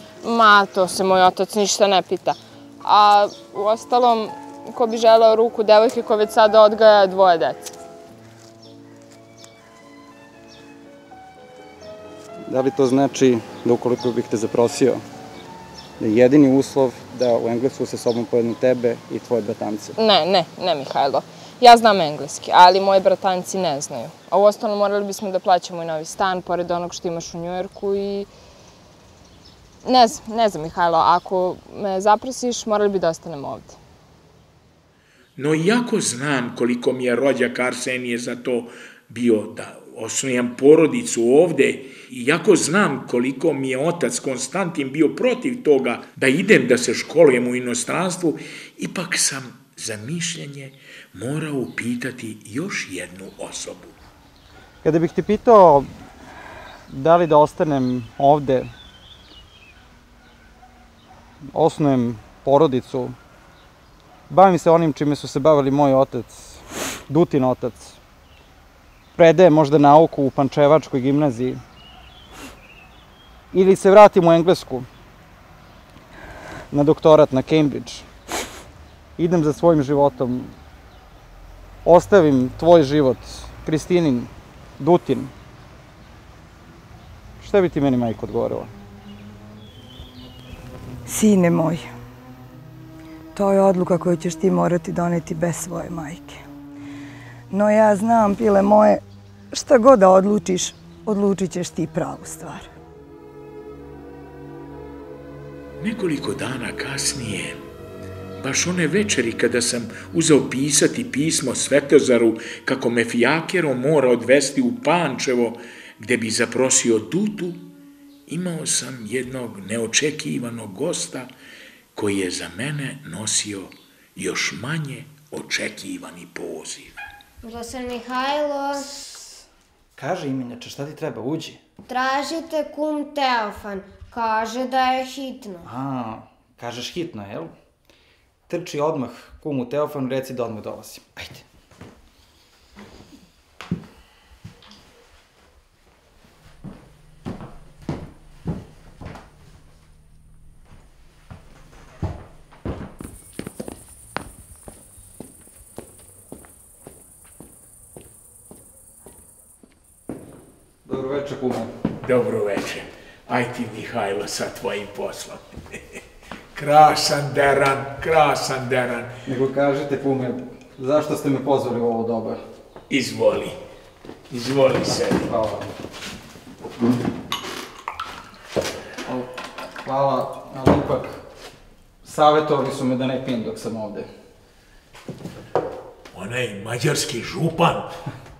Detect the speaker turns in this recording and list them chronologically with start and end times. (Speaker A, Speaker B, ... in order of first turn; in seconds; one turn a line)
Speaker A: 0.2-7.8
Speaker B: 12.5-15.0
Speaker B: 16.0-19.9
Speaker A: 20.0-28.3
Speaker A: 29.8-33.8
Speaker C: 35.4-53.9
Speaker B: 54.8-55.9
Speaker B: 56.9-58.7
Speaker B: 61.5-63.2
Speaker B: 64.3-68.0
Speaker B: 69.2-71.6
Speaker B: 73.5-74.9
Speaker B: 76.7-78.1
Speaker B: 79.2-80.5
Speaker B: 81.8-85.3
Speaker B: 87.4-88.7
Speaker D: 91.1-91.9
Speaker D: 93.3-96.4
Speaker D: 97.5-99.0
Speaker D: 99.5-102.7
Speaker C: 105.8-107.6
Speaker C: 108.4-117.7
Speaker C: 118.3-121.3
Speaker C: 122.0-127.0
Speaker E: 127.4-129.0
Speaker B: 130.0-131.6
Speaker E: 131.9-135.7
Speaker B: 135.6-137.5
Speaker B: 138.5-141.4
Speaker B: 160.8-161.7
Speaker C: 162.0-166.0
Speaker C: 166.5-169.2
Speaker B: 169.3-172.4
Speaker C: 172.9-173.6
Speaker C: 174.3-175.3
Speaker B: 175.2-175.7
Speaker B: 179.1-179.3
Speaker B: 179.8-181.2
Speaker B: 182.0-184.1
Speaker C: 186.1-187.9